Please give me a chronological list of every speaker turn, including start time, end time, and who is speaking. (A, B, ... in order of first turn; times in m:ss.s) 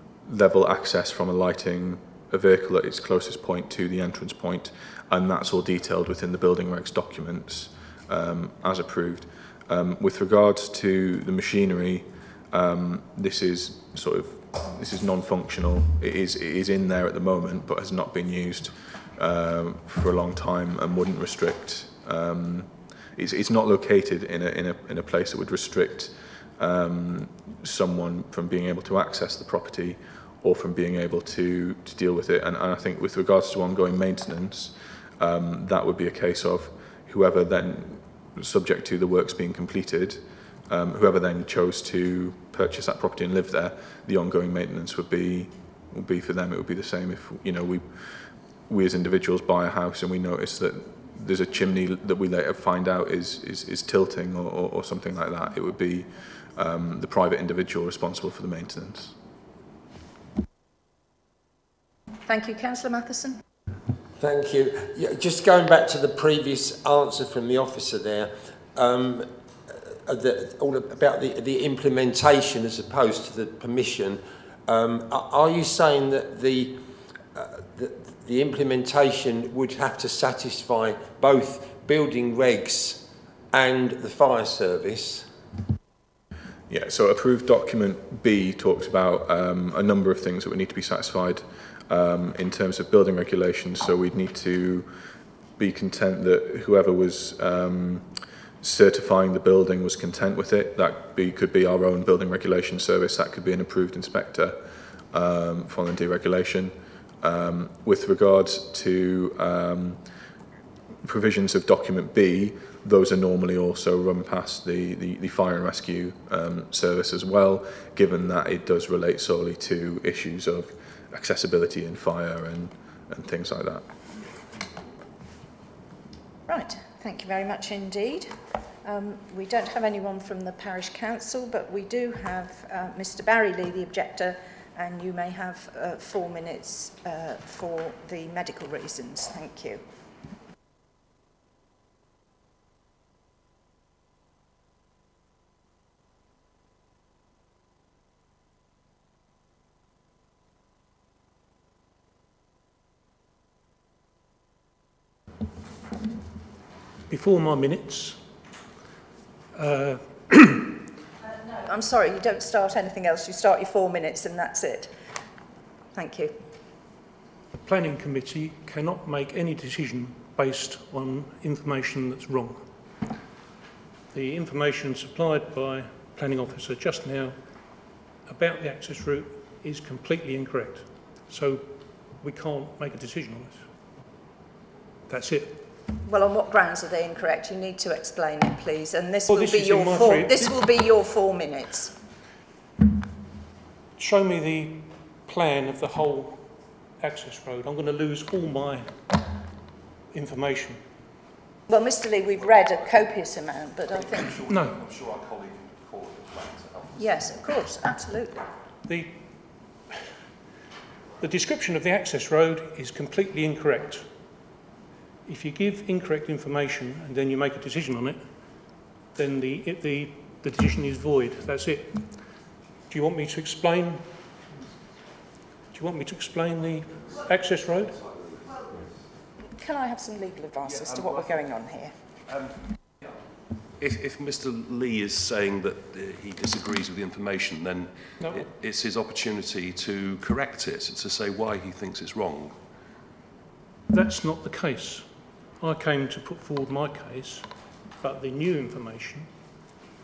0:00.2-0:59.1 A
1:02.2-1:03.4 B
1:04.2-1:16.8 C
1:17.3-1:25.3 C
1:26.7-1:34.9 A
1:35.6-1:38.1 A
1:38.6-1:44.6 A
1:45.1-1:50.0 A
1:51.0-2:03.9 A
2:06.5-2:19.8 B
2:37.1-2:38.2 D
2:39.6-2:40.7 D
2:41.5-2:44.9 B
2:45.9-2:46.4 B
2:47.6-2:52.7 D
2:54.1-2:57.4 D
2:58.2-3:03.6 D
3:05.1-3:05.6 D
3:06.0-3:11.9 B
3:09.3-3:10.6 D
3:14.0-3:16.5 D
3:17.0-3:19.0 D
3:20.1-3:20.8 D
3:21.7-3:24.4 B
3:24.1-3:27.0 E
3:24.5-3:24.8 D
3:27.0-3:28.4 B
3:28.9-3:29.2 D
3:31.2-3:34.1 D
3:35.2-3:38.2 D
3:39.1-3:42.2 D
3:42.9-3:44.1 D
3:45.7-3:48.0 D
3:49.5-3:51.9 B
3:50.7-3:51.5 E
3:52.2-3:52.6 E
3:53.8-4:02.6 E
4:03.9-4:07.5 D
4:08.0-4:09.3 D